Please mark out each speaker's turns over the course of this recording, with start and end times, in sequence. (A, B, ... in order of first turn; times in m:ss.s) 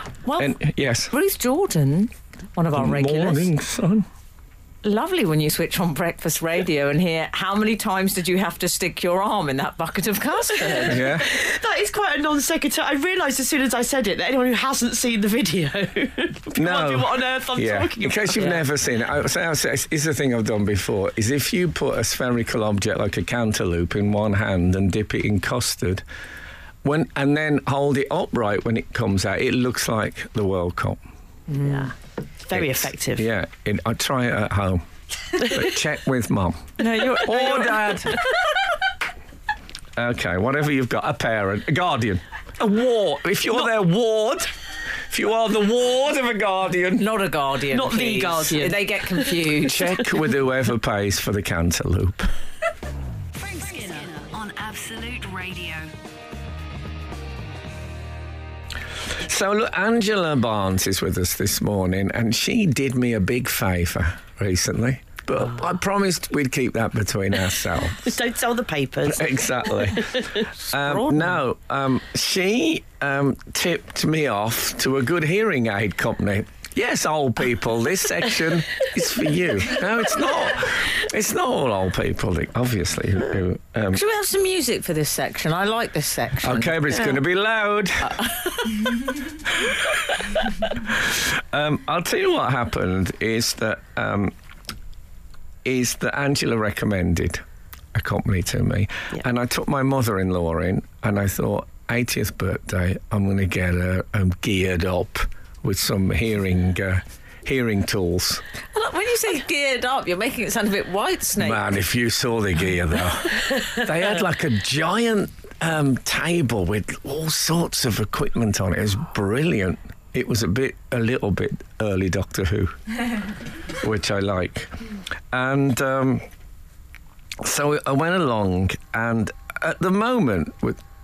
0:00.2-0:00.6 A
0:00.4-0:01.1 B
0:01.1-0:03.5 A
0:02.7-0:04.0 B
0:04.8-0:11.0 A
0:10.8-0:11.3 B
0:11.1-0:18.6 C
0:16.5-0:26.0 B
0:26.8-0:31.0 B
0:31.5-0:31.9 A
0:31.6-0:31.9 C
0:32.4-0:33.2 C
0:32.5-0:38.1 B
0:36.8-0:38.2 A
0:40.0-0:44.5 B
0:45.1-0:47.1 B
0:47.0-0:50.0 A
0:47.7-0:49.3 C
0:49.6-0:52.3 B
0:53.3-0:55.9 D
0:59.2-1:08.2 B
1:08.0-1:10.4 C
1:09.0-1:24.0 B
1:10.7-1:11.4 A
1:23.9-1:26.9 A
1:26.4-1:28.2 B
1:29.5-1:30.0 B
1:30.7-1:34.3 B
1:35.6-1:37.4 B
1:37.9-1:48.4 B
1:48.7-1:51.6 A
1:51.4-2:02.8 B
2:03.8-2:04.8 B
2:05.3-2:06.2 B
2:07.4-2:10.8 B